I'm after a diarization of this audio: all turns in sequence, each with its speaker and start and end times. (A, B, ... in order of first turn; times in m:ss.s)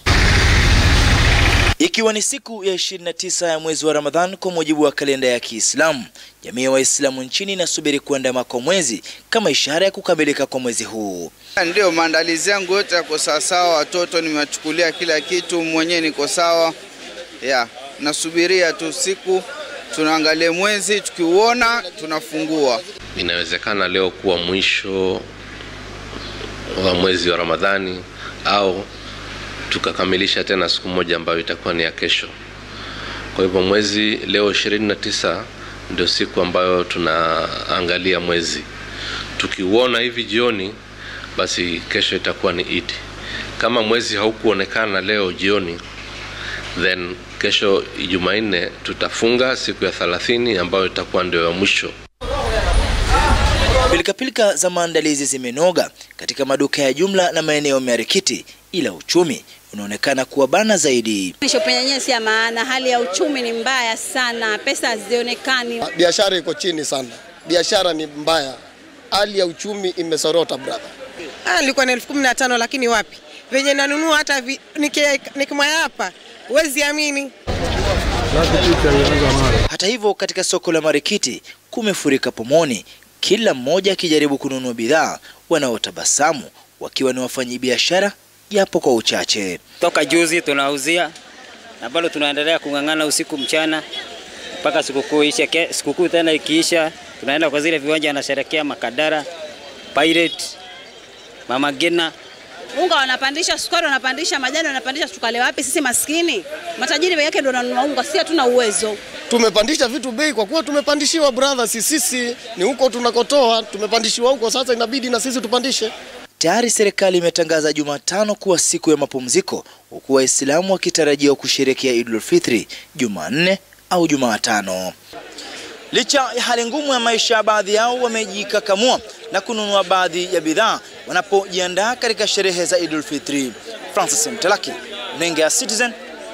0:01.8-0:11.3 A
0:11.6-0:16.8 B
0:17.4-0:22.8 B
0:23.2-0:25.2 C
0:26.8-0:28.9 C
0:29.7-0:32.3 C
0:33.4-0:38.7 C
0:39.4-0:40.8 C
0:41.4-0:43.0 C
0:43.6-0:45.8 C
0:46.8-0:51.9 C
0:53.9-1:01.4 A
1:01.4-1:05.8 D
1:05.9-1:08.6 E
1:09.1-1:10.9 E
1:11.4-1:17.3 F
1:19.7-1:29.6 A
1:29.8-1:31.0 G
1:31.8-1:33.8 G
1:34.7-1:39.2 G
1:40.0-1:40.4 G
1:41.5-1:42.1 G
1:42.7-1:49.0 D
1:49.3-1:55.9 E
1:56.4-2:04.9 A
2:05.9-2:16.0 A